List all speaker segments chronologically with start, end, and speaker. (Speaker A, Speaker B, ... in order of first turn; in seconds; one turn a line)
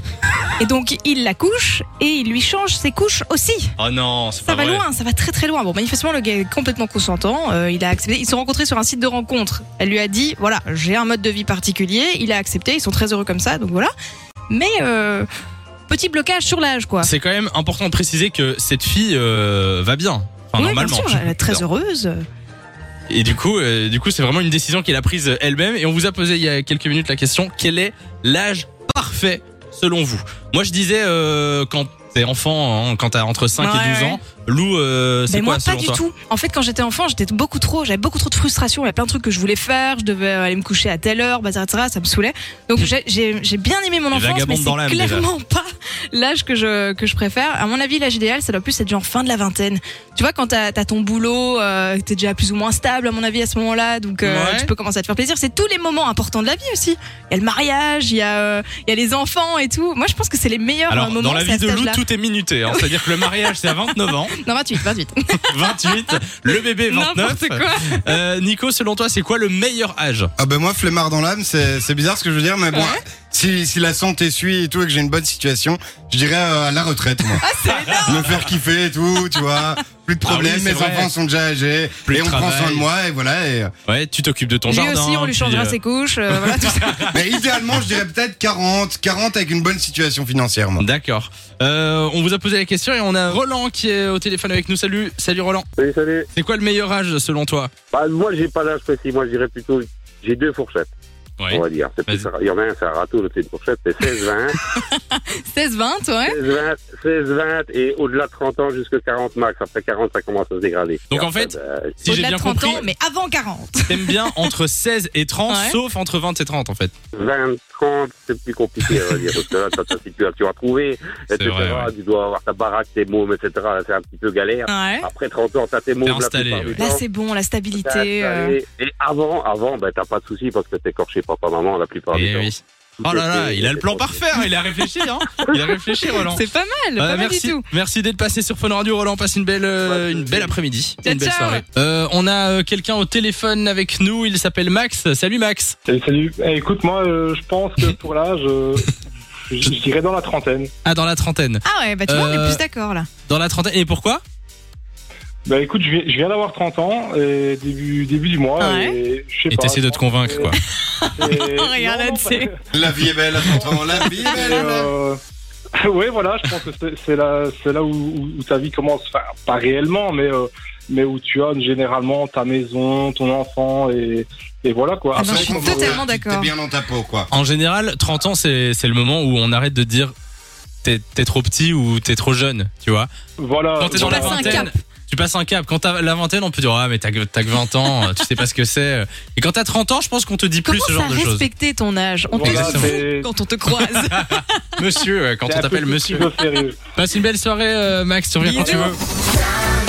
Speaker A: 0.6-3.7
Speaker B: 3.8-4.8
Speaker A: 4.5-13.9
Speaker A: 14.5-15.3
Speaker A: 15.9-17.1
Speaker B: 17.0-21.6
Speaker A: 20.6-22.2
Speaker B: 23.1-36.0
Speaker A: 33.6-34.2
Speaker A: 35.3-62.0
Speaker B: 44.1-45.3
Speaker B: 54.2-54.7
Speaker B: 60.9-64.3
Speaker A: 62.7-63.5
Speaker A: 64.3-66.0
Speaker B: 65.5-70.3
Speaker A: 66.9-68.2
Speaker C: 70.4-77.4
Speaker A: 72.7-73.0
Speaker A: 77.4-78.2
Speaker C: 78.0-83.7
Speaker B: 80.2-81.1
Speaker B: 82.0-82.9
Speaker B: 83.9-85.7
Speaker A: 84.7-87.1
Speaker B: 86.3-87.0
Speaker C: 87.1-90.8
Speaker B: 90.8-95.7
Speaker D: 95.8-96.3
Speaker B: 96.3-97.7
Speaker D: 97.9-100.9
Speaker B: 101.4-102.3
Speaker D: 101.5-104.7
Speaker A: 104.7-106.4
Speaker D: 106.2-112.2
Speaker B: 111.1-112.8
Speaker A: 112.0-114.5
Speaker B: 113.9-116.9
Speaker A: 115.5-115.8
Speaker D: 117.1-127.0
Speaker B: 121.4-121.9
Speaker A: 124.7-125.1
Speaker B: 126.0-126.8
Speaker A: 126.8-128.6
Speaker D: 127.7-134.5
Speaker B: 132.1-136.4
Speaker A: 135.5-137.6
Speaker B: 137.0-145.7
Speaker D: 139.8-140.5
Speaker A: 141.0-141.6
Speaker E: 145.9-148.9
Speaker E: 149.5-150.7
Speaker B: 150.8-152.6
Speaker A: 151.6-153.1
Speaker B: 153.3-154.2
Speaker E: 155.4-160.6
Speaker A: 158.6-158.9
Speaker B: 159.5-160.6
Speaker A: 160.4-162.5
Speaker E: 161.2-162.6
Speaker C: 162.7-164.9
Speaker E: 164.0-165.2
Speaker A: 164.0-164.6
Speaker E: 165.8-176.0
Speaker A: 175.1-176.5
Speaker C: 175.1-177.3
Speaker B: 177.3-180.1
Speaker B: 180.8-183.1
Speaker E: 183.4-184.7
Speaker B: 183.8-191.4
Speaker A: 183.9-184.7
Speaker A: 190.6-194.7
Speaker E: 192.3-193.3
Speaker B: 192.4-193.0
Speaker B: 193.8-196.3
Speaker E: 195.4-196.8
Speaker B: 196.9-199.0
Speaker A: 198.4-198.9